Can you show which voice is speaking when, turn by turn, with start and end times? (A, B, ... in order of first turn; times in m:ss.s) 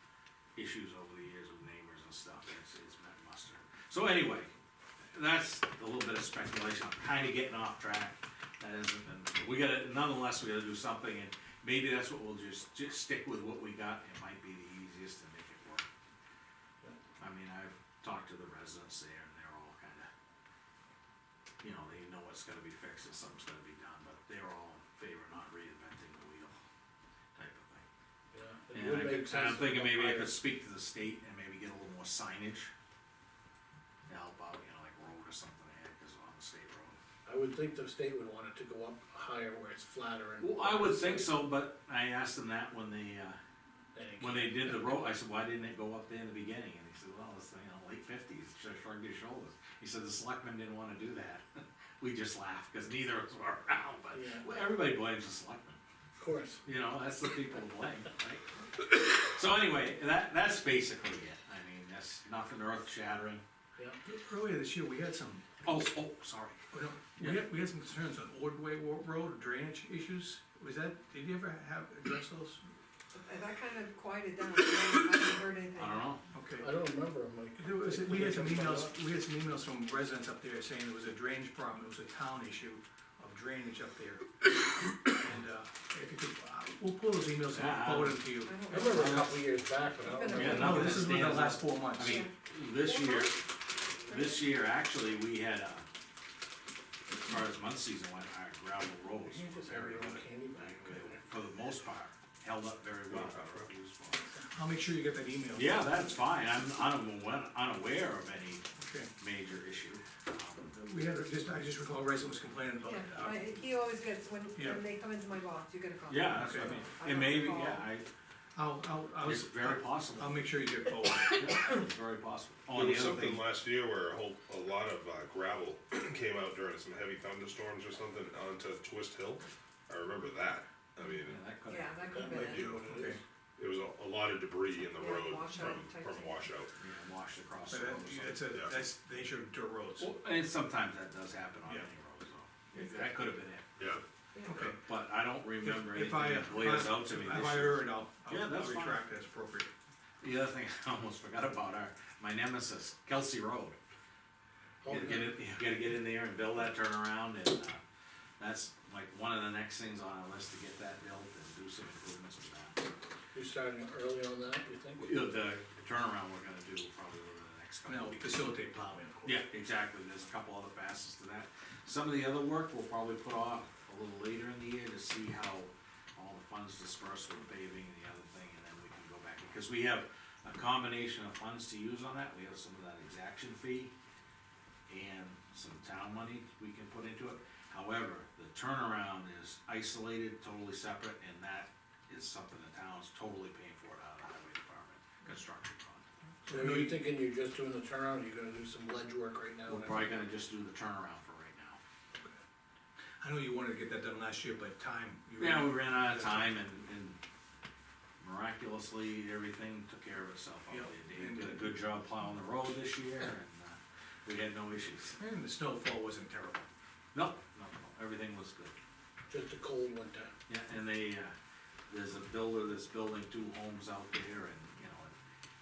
0:00.6-0:04.5 A
0:05.1-0:15.9 A
0:17.2-0:20.1 A
0:21.6-0:26.6 A
0:27.4-0:27.8 A
0:28.3-0:30.3 B
0:28.7-0:32.7 A
0:34.1-0:37.0 A
0:37.2-0:41.3 B
0:40.4-0:43.4 A
0:43.9-0:44.9 B
0:44.2-0:55.8 A
0:54.1-0:54.5 B
0:56.2-0:56.6 B
0:56.6-1:03.4 A
1:04.0-1:05.4 C
1:05.6-1:06.6 A
1:06.7-1:12.6 C
1:07.2-1:07.4 A
1:13.1-1:16.2 D
1:15.8-1:16.2 A
1:16.3-1:16.7 C
1:16.6-1:18.9 B
1:17.6-1:28.6 C
1:27.5-1:29.4 A
1:28.4-1:29.2 D
1:28.7-1:31.0 B
1:30.0-1:31.2 D
1:30.3-1:33.4 A
1:30.5-1:32.2 C
1:32.0-1:33.4 D
1:34.0-1:35.8 A
1:34.0-1:34.4 D
1:37.1-1:44.2 A
1:39.2-1:41.2 B
1:43.1-1:43.7 E
1:44.5-1:46.0 C
1:45.5-1:48.6 A
1:48.8-1:49.1 C
1:49.2-1:50.7 A
1:50.7-1:53.6 C
1:52.8-1:57.9 D
1:54.5-1:54.8 C
1:56.1-1:58.1 A
1:56.3-1:56.8 C
1:58.5-2:01.7 C
1:59.2-2:00.4 A
2:01.3-2:03.4 A
2:02.7-2:11.4 E
2:11.2-2:12.4 A
2:11.7-2:12.7 D
2:12.1-2:13.2 B
2:12.3-2:13.2 C
2:12.4-2:12.9 E
2:13.6-2:16.7 E
2:14.9-2:16.5 D
2:16.8-2:18.4 A
2:17.7-2:20.1 C
2:18.4-2:18.8 E
2:20.0-2:23.8 A
2:22.8-2:23.1 D
2:24.4-2:24.8 C
2:24.7-2:29.0 A
2:25.6-2:29.7 C
2:30.2-2:33.8 A
2:34.8-2:35.4 B
2:34.8-2:37.8 A
2:38.4-2:42.8 A
2:43.3-2:45.2 B
2:45.0-3:03.9 A
2:47.8-2:49.4 C
3:04.9-3:16.0 A
3:16.4-3:17.0 C
3:16.5-3:20.2 B
3:19.7-3:21.8 A
3:23.2-3:26.6 C
3:25.4-3:27.2 A
3:28.2-3:35.2 A
3:30.7-3:31.7 C
3:35.2-3:36.6 C
3:37.1-3:38.7 A
3:39.3-3:40.3 B
3:40.5-3:41.3 A
3:41.9-3:45.1 A